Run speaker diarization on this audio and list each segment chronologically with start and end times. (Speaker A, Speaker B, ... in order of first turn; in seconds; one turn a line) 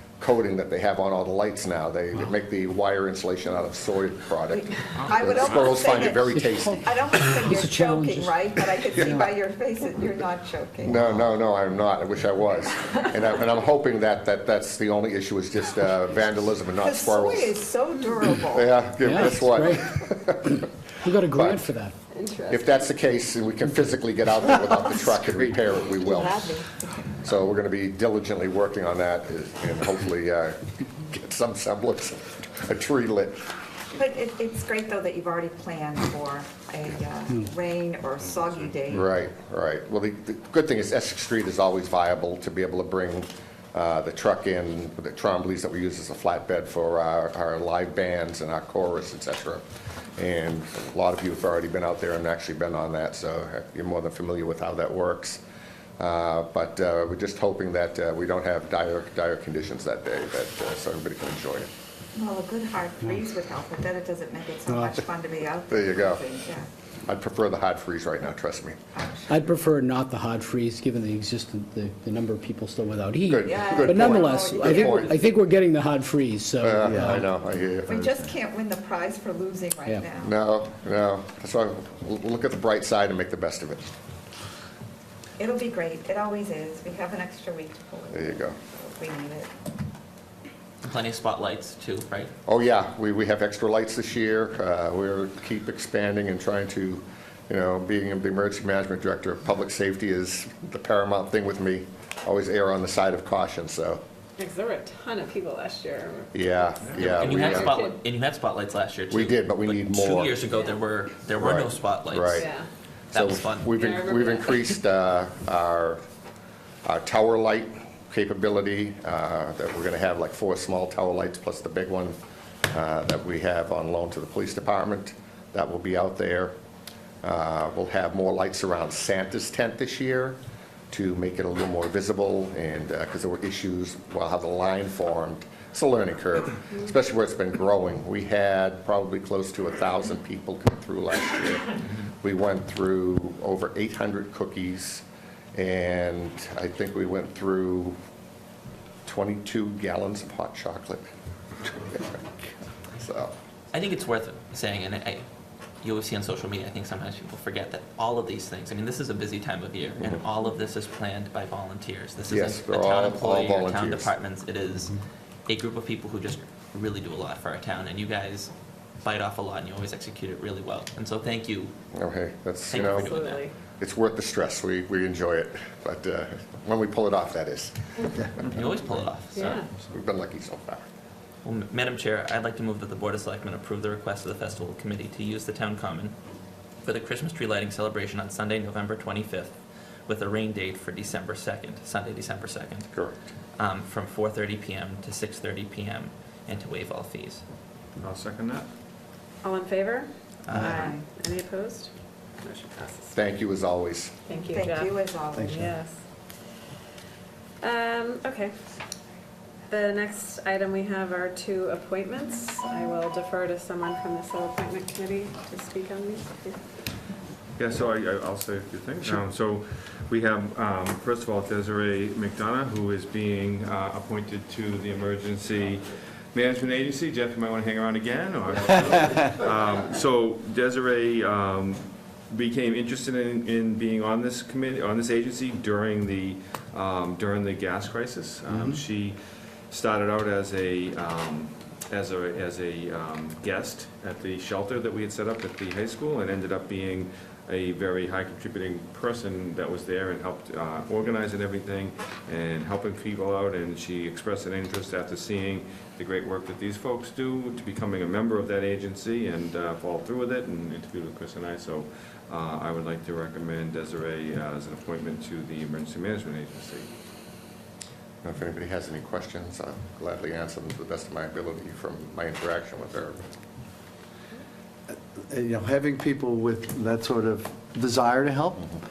Speaker A: 0.2-6.8
Speaker B: 4.5-11.0
Speaker C: 6.3-9.3
Speaker A: 10.8-17.6
Speaker B: 16.8-18.7
Speaker A: 18.4-20.6
Speaker C: 19.0-21.9
Speaker A: 21.3-21.7
Speaker D: 22.2-22.5
Speaker A: 22.5-26.4
Speaker C: 24.6-24.9
Speaker B: 26.0-27.1
Speaker A: 27.2-33.4
Speaker B: 33.9-39.1
Speaker A: 38.9-49.6
Speaker A: 50.2-55.4
Speaker A: 56.0-61.7
Speaker B: 62.1-66.7
Speaker C: 64.7-65.0
Speaker A: 65.7-66.2
Speaker A: 67.1-68.8
Speaker B: 68.9-69.5
Speaker C: 69.3-77.3
Speaker A: 73.3-75.2
Speaker B: 73.4-75.2
Speaker A: 76.6-77.9
Speaker B: 77.8-80.3
Speaker A: 80.2-83.9
Speaker B: 85.4-89.5
Speaker A: 88.1-88.6
Speaker E: 90.8-92.3
Speaker A: 92.5-104.0
Speaker D: 104.4-106.5
Speaker A: 106.3-107.7
Speaker E: 106.9-112.5
Speaker D: 107.2-108.0
Speaker A: 109.1-110.4
Speaker A: 111.4-112.5
Speaker D: 112.4-112.7
Speaker E: 113.1-113.9
Speaker A: 113.1-116.0
Speaker D: 113.8-114.5
Speaker A: 116.8-122.2
Speaker A: 122.7-126.5
Speaker A: 127.2-130.4
Speaker A: 130.9-148.0
Speaker A: 149.1-151.1
Speaker A: 151.9-152.2
Speaker A: 152.9-153.3
Speaker E: 153.7-155.2
Speaker E: 155.8-168.5
Speaker A: 162.3-164.1
Speaker E: 169.0-171.7
Speaker A: 171.9-173.1
Speaker E: 172.7-173.4
Speaker D: 172.8-173.5
Speaker A: 173.8-178.6
Speaker E: 178.4-179.6
Speaker D: 179.3-179.7
Speaker A: 179.9-180.8
Speaker E: 181.4-186.1
Speaker E: 186.8-192.9
Speaker E: 193.6-197.4
Speaker F: 198.0-198.7
Speaker D: 199.4-200.1
Speaker E: 200.5-200.9
Speaker B: 200.5-201.0
Speaker D: 201.0-201.9
Speaker D: 202.4-203.1
Speaker A: 203.1-204.1
Speaker D: 204.3-205.9
Speaker B: 204.4-205.6
Speaker D: 207.6-208.5
Speaker D: 209.7-216.6
Speaker F: 217.6-239.2
Speaker F: 239.7-266.9
Speaker A: 268.2-273.2
Speaker G: 275.3-278.6